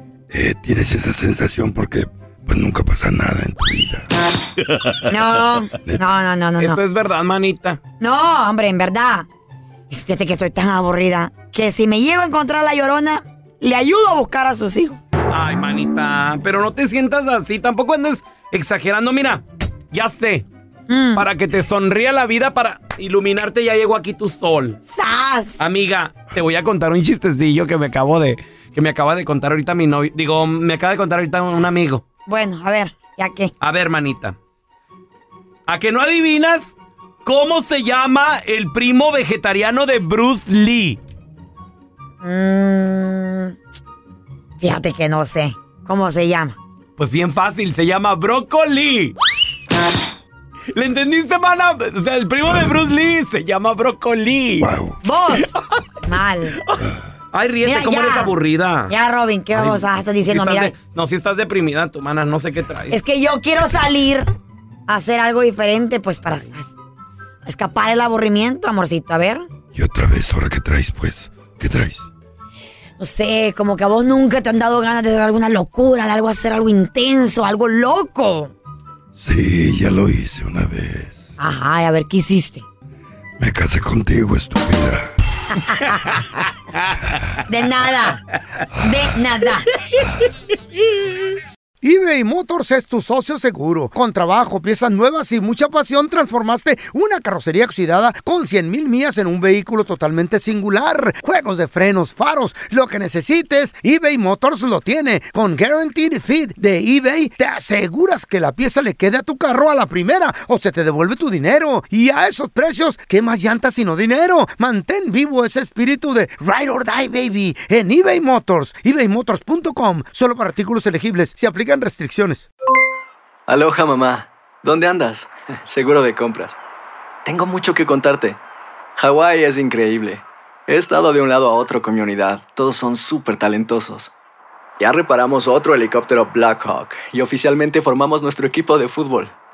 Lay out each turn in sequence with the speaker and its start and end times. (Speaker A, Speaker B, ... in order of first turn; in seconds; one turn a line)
Speaker A: 0.3-4.1
Speaker B: 5.1-6.8
Speaker C: 6.6-7.8
Speaker B: 8.0-9.3
Speaker B: 9.9-15.0
Speaker C: 15.3-20.5
Speaker B: 20.9-21.2
Speaker C: 21.1-24.8
Speaker B: 24.9-25.6
Speaker C: 25.6-32.0
Speaker B: 32.3-33.5
Speaker C: 33.6-34.4
Speaker C: 35.7-41.0
Speaker B: 42.2-43.5
Speaker B: 44.6-46.6
Speaker C: 47.0-49.1
Speaker C: 50.7-54.7
Speaker A: 54.6-55.0
Speaker B: 55.0-55.5
Speaker B: 56.1-56.6
Speaker C: 57.3-58.9
Speaker B: 57.6-58.3
Speaker B: 58.9-60.7
Speaker C: 59.5-63.0
Speaker B: 62.9-64.3
Speaker B: 64.9-66.7
Speaker B: 67.5-69.5
Speaker A: 69.7-72.1
Speaker B: 73.0-78.5
Speaker A: 79.1-81.3
Speaker B: 81.4-82.6
Speaker A: 83.4-85.1
Speaker B: 85.6-86.1
Speaker B: 87.5-88.2
Speaker B: 88.8-89.7
Speaker D: 91.8-122.5
Speaker E: 123.5-126.6
Speaker E: 127.2-128.4
Speaker E: 129.0-134.1
Speaker E: 134.8-139.3